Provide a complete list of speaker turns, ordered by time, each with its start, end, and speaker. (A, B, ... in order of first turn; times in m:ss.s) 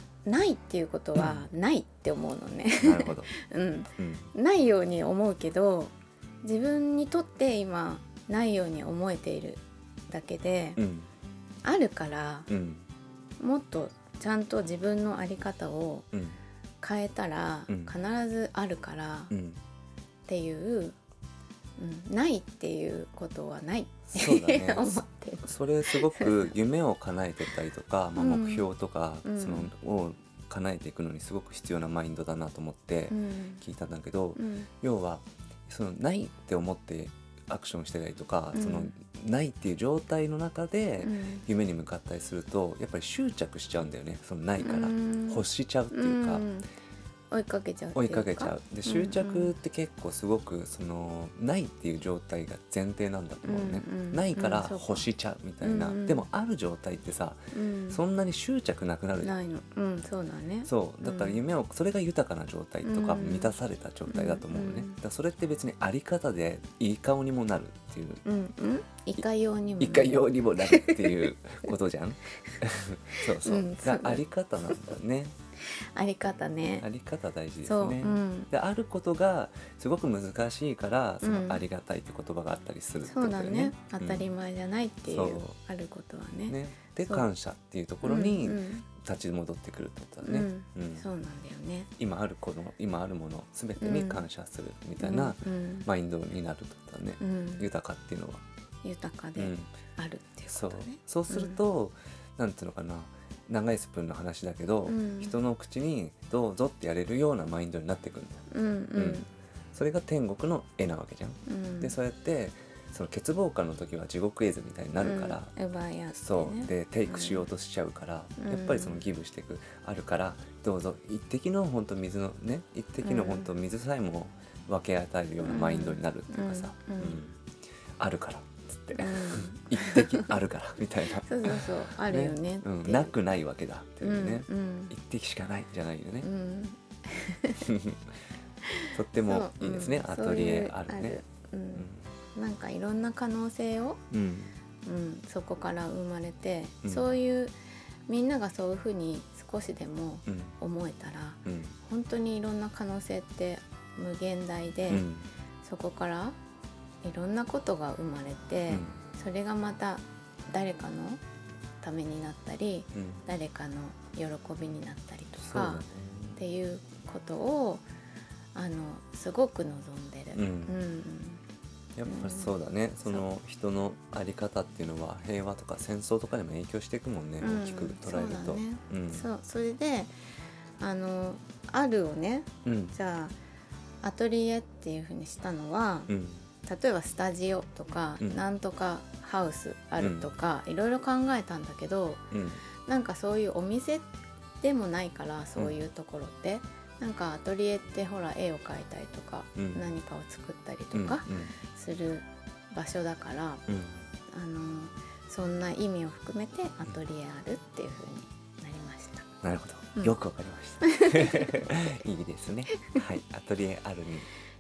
0:00.3-0:10.8 A
0:01.2-0:01.4 B
0:02.8-0:03.3 B
0:04.0-0:04.2 B
0:10.8-0:11.1 B
0:11.6-0:12.5 A
0:12.5-0:12.9 B
0:13.4-0:16.1 A
0:16.1-0:16.4 B
0:16.8-0:19.3 A
0:19.3-0:19.6 B
0:20.3-0:21.0 A
0:21.8-0:26.6 A
0:24.1-0:46.5 B
0:28.2-0:28.7 A
0:29.2-0:29.7 A
0:33.1-0:33.6 A
0:34.4-0:34.7 A
0:38.5-0:38.9 A
0:41.0-0:41.4 A
0:44.6-0:46.7 A
0:47.3-0:49.5 A
0:47.9-0:59.4 B
0:53.4-0:55.1 A
0:55.6-0:56.2 A
0:57.5-0:58.0 A
0:59.2-1:01.4 A
1:00.7-1:08.2 B
1:02.8-1:03.6 A
1:04.1-1:05.0 A
1:08.2-1:11.3 A
1:09.8-1:15.3 B
1:13.1-1:14.9 A
1:15.7-1:16.9 A
1:16.8-1:24.3 B
1:17.6-1:18.5 A
1:21.2-1:21.6 A
1:23.1-1:27.3 A
1:25.1-1:25.6 B
1:26.5-1:31.1 B
1:28.0-1:28.8 A
1:30.2-1:31.9 A
1:32.0-1:38.4 B
1:33.8-1:34.3 A
1:35.0-1:35.9 A
1:37.2-1:37.7 A
1:38.8-1:41.6 A
1:39.4-1:39.7 B
1:40.5-1:48.4 B
1:44.9-1:45.4 A
1:48.5-1:49.3 A
1:49.0-1:55.5 B
1:51.5-1:52.0 A
1:55.0-1:57.5 A
1:56.1-2:07.4 B
1:58.4-1:59.0 A
2:03.0-2:03.5 A
2:05.4-2:07.2 A
2:08.0-2:16.3 B
2:09.0-2:10.4 A
2:11.2-2:13.1 A
2:14.0-2:14.9 A
2:16.2-2:17.7 A
2:17.6-2:18.0 B
2:18.7-2:24.0 A
2:18.9-2:21.2 B
2:21.8-2:22.1 B
2:24.1-2:24.5 B
2:24.8-2:27.5 A
2:26.8-2:27.1 B
2:28.1-2:35.1 A
2:30.3-2:30.6 B
2:31.5-2:31.8 B
2:34.9-2:35.3 B
2:35.6-2:36.4 A
2:37.0-2:41.2 A
2:38.7-2:39.0 B
2:41.8-2:45.8 A
2:43.0-2:43.3 B
2:45.4-2:46.4 B
2:46.4-2:47.8 A
2:48.6-2:51.4 A
2:50.3-2:50.8 B
2:52.0-2:59.3 B
2:52.0-2:53.2 A
2:57.4-3:00.1 A
3:00.8-3:03.3 A
3:02.6-3:03.0 B
3:04.0-3:06.1 A
3:06.1-3:06.5 B
3:06.6-3:12.2 A
3:10.0-3:10.3 B
3:12.3-3:12.6 B
3:12.8-3:14.1 A
3:14.6-3:23.6 A
3:19.6-3:19.8 B
3:20.9-3:21.6 B
3:23.7-3:24.1 B
3:24.3-3:29.3 A
3:29.4-3:34.3 B
3:30.8-3:31.9 A